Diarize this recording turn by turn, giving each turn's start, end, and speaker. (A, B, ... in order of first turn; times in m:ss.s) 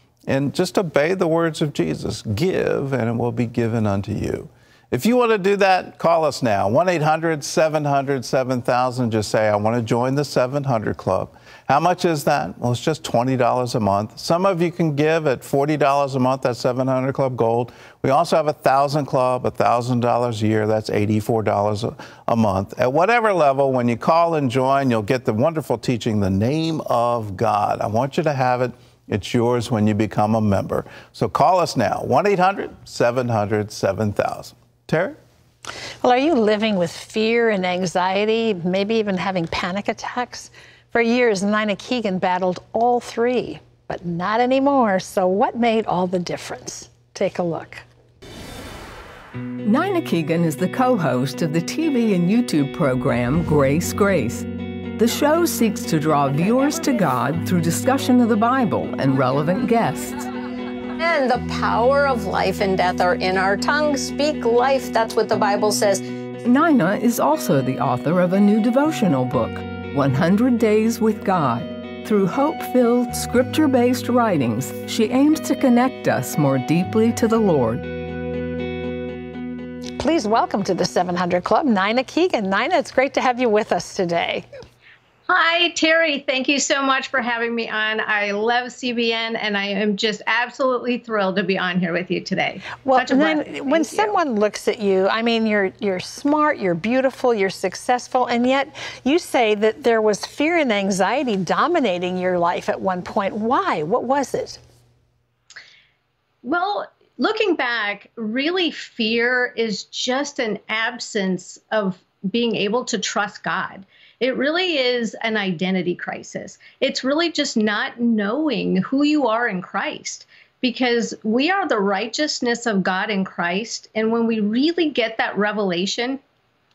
0:00.3-0:35.2 A
0:36.0-0:47.8 B
0:49.6-1:00.2 C
1:01.0-1:06.0 D
1:06.4-1:17.9 C
1:20.0-1:24.5 B
1:25.3-1:34.2 E
1:32.8-1:44.6 B
1:46.4-2:06.2 E